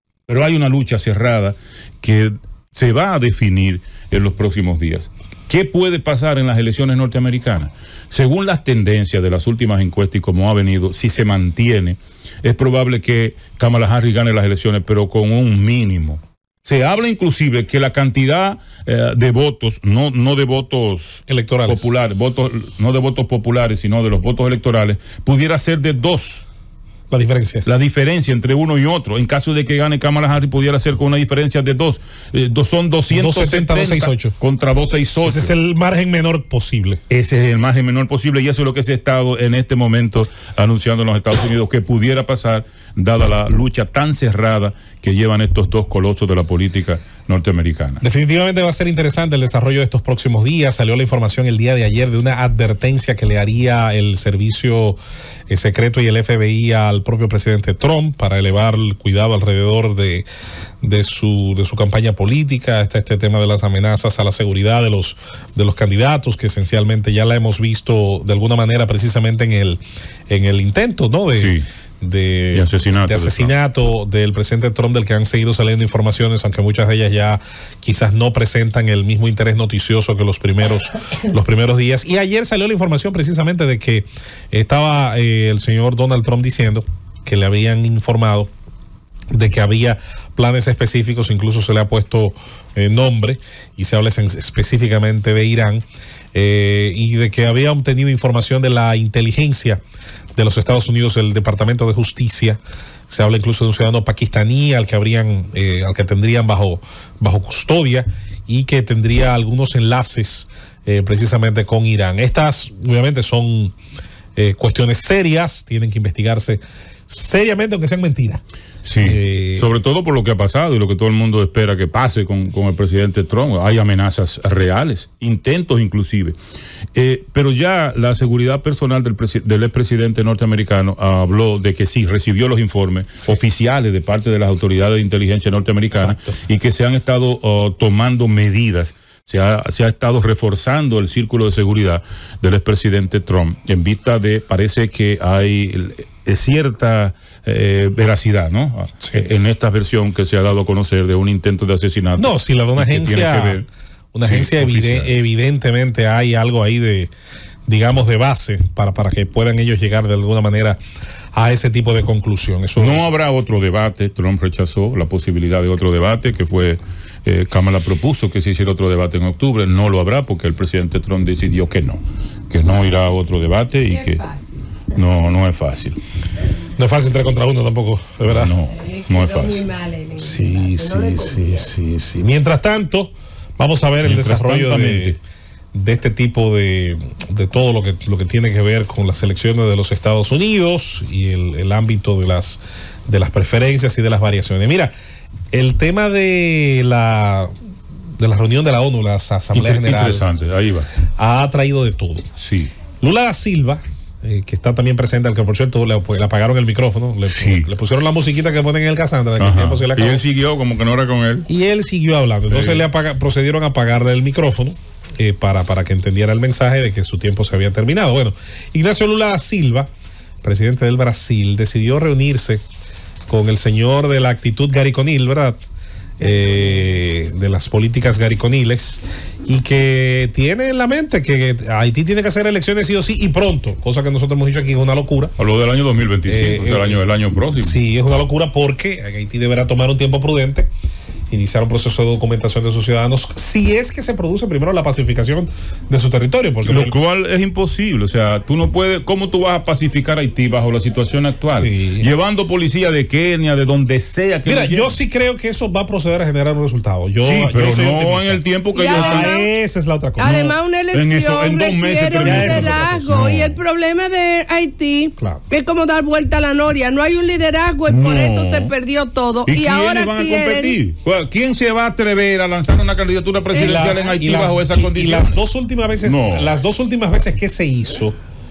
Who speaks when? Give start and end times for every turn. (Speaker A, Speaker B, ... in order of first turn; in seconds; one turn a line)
Speaker A: 0.3-26.4
Speaker B: 21.3-21.9
Speaker B: 27.1-27.6
Speaker A: 27.6-35.5
Speaker B: 33.1-34.3
Speaker B: 35.2-37.0
Speaker A: 37.1-48.0
Speaker B: 48.0-55.0
Speaker B: 55.5-60.2
Speaker B: 60.8-88.5
Speaker A: 71.3-71.6
Speaker A: 72.5-73.5
Speaker B: 89.3-99.8
Speaker B: 100.3-113.7
Speaker B: 114.3-118.4
Speaker A: 118.8-126.4
Speaker B: 119.0-119.7
Speaker A: 126.9-153.7
Speaker B: 135.9-136.3
Speaker B: 152.1-157.1
Speaker A: 154.2-155.2
Speaker B: 157.7-160.8
Speaker B: 161.3-163.1
Speaker A: 162.8-174.2
Speaker C: 173.9-174.7
Speaker A: 174.9-176.0
Speaker B: 176.8-178.6
Speaker A: 178.3-179.7
Speaker C: 178.7-181.6
Speaker B: 180.2-185.2
Speaker A: 184.0-185.2
Speaker B: 185.7-194.9
Speaker B: 195.5-197.5
Speaker B: 198.2-200.2
Speaker A: 199.5-200.9
Speaker B: 201.2-202.2
Speaker A: 202.3-202.7
Speaker B: 203.0-210.2
Speaker A: 207.3-207.7
Speaker A: 209.4-211.5
Speaker B: 211.5-219.9
Speaker A: 212.5-212.9
Speaker B: 220.4-222.6
Speaker B: 223.3-225.6
Speaker B: 226.2-235.3
Speaker A: 235.4-237.8
Speaker B: 236.2-237.0
Speaker B: 237.6-240.7
Speaker B: 241.3-246.9
Speaker A: 246.6-255.0
Speaker B: 251.6-252.1
Speaker B: 254.4-260.6
Speaker A: 257.2-259.4
Speaker C: 258.7-259.5
Speaker C: 260.2-270.8
Speaker A: 260.9-263.6
Speaker B: 262.1-263.0
Speaker B: 265.2-265.4
Speaker A: 267.9-268.7
Speaker A: 269.4-275.4
Speaker C: 273.5-274.1
Speaker B: 273.6-278.1
Speaker A: 276.0-276.6